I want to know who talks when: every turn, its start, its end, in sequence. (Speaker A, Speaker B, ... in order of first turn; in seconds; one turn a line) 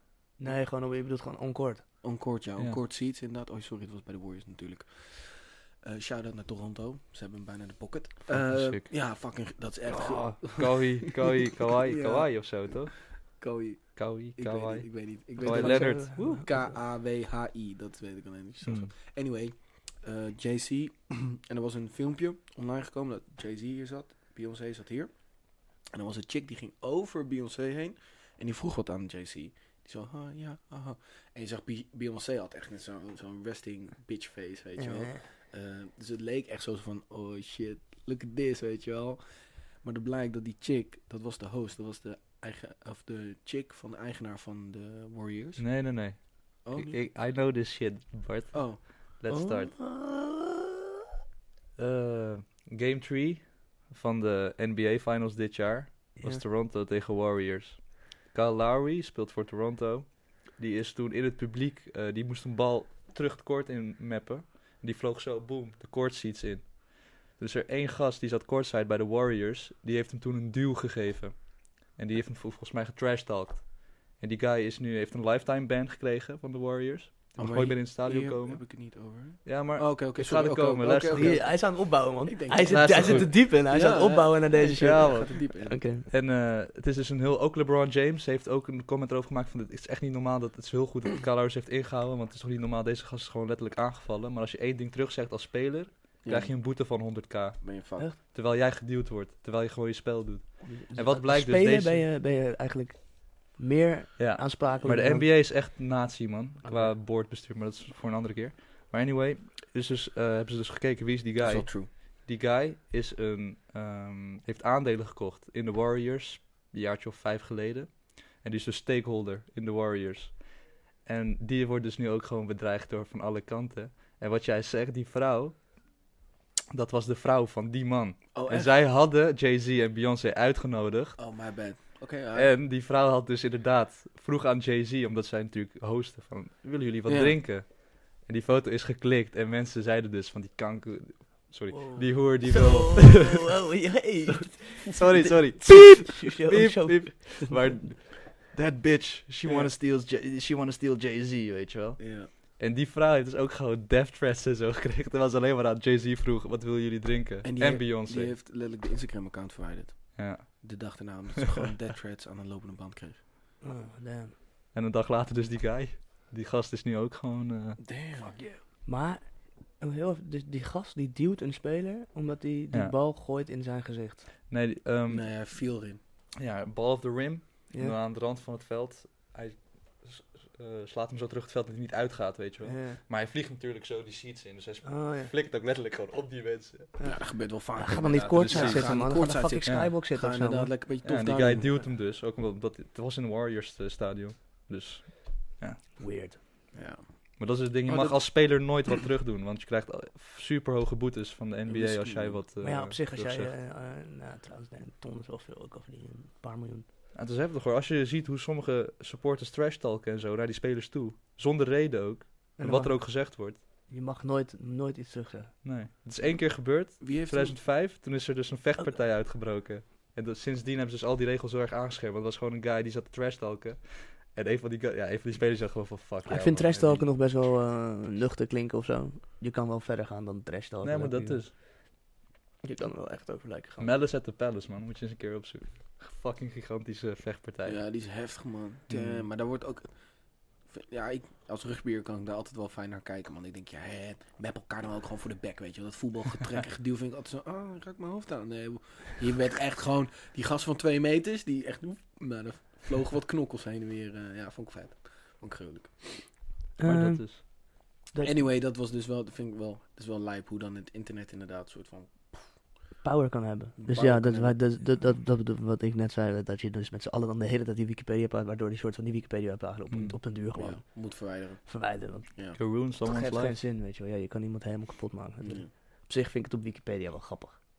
Speaker A: 0.4-1.9
Speaker B: 2.0-45.8
Speaker C: 8.3-9.1
Speaker C: 9.9-13.2
Speaker C: 14.0-16.6
Speaker A: 15.4-16.4
Speaker C: 18.6-18.9
Speaker A: 34.8-35.3
Speaker C: 45.6-49.8
Speaker B: 46.6-47.0
Speaker B: 48.5-48.8
Speaker A: 49.3-50.7
Speaker C: 51.8-81.5
Speaker A: 56.2-56.4
Speaker B: 77.4-85.8
Speaker A: 81.1-86.1
Speaker C: 82.7-83.5
Speaker C: 84.7-85.4
Speaker C: 86.1-102.0
Speaker B: 96.2-96.6
Speaker B: 97.6-98.1
Speaker A: 100.6-105.3
Speaker C: 104.2-125.7
Speaker A: 106.6-107.0
Speaker B: 111.4-111.9
Speaker C: 126.7-131.2
Speaker B: 128.3-128.7
Speaker B: 131.2-132.5
Speaker C: 132.3-143.5
Speaker B: 137.1-137.4
Speaker A: 141.7-147.8
Speaker C: 144.5-158.3
Speaker B: 149.4-149.7
Speaker B: 152.0-152.3
Speaker B: 157.4-163.2
Speaker C: 160.2-161.2
Speaker A: 163.6-164.3
Speaker C: 164.7-167.9
Speaker B: 167.8-168.4
Speaker A: 168.4-174.3
Speaker C: 174.5-175.7
Speaker B: 175.1-176.0
Speaker C: 176.4-187.0
Speaker A: 177.7-178.0
Speaker A: 182.6-183.0
Speaker A: 184.8-185.3
Speaker A: 187.0-190.7
Speaker B: 187.0-191.8
Speaker C: 188.4-188.9
Speaker C: 189.7-189.9
Speaker C: 191.0-195.8
Speaker A: 196.0-196.4
Speaker B: 196.7-198.3
Speaker C: 197.4-203.5
Speaker B: 201.7-202.4
Speaker A: 202.6-206.9
Speaker C: 207.1-213.6
Speaker A: 212.6-215.6
Speaker C: 215.6-227.1
Speaker B: 216.2-217.6
Speaker A: 226.3-231.7
Speaker C: 230.8-231.5
Speaker A: 232.6-234.0
Speaker C: 233.8-238.0
Speaker B: 237.6-239.9
Speaker C: 238.9-239.3
Speaker B: 240.5-256.4
Speaker A: 256.8-258.4
Speaker C: 256.8-257.4
Speaker B: 258.2-262.7
Speaker A: 263.0-277.6
Speaker B: 263.8-264.7
Speaker C: 269.9-270.2
Speaker B: 270.5-272.6
Speaker C: 272.6-273.6
Speaker B: 275.4-275.7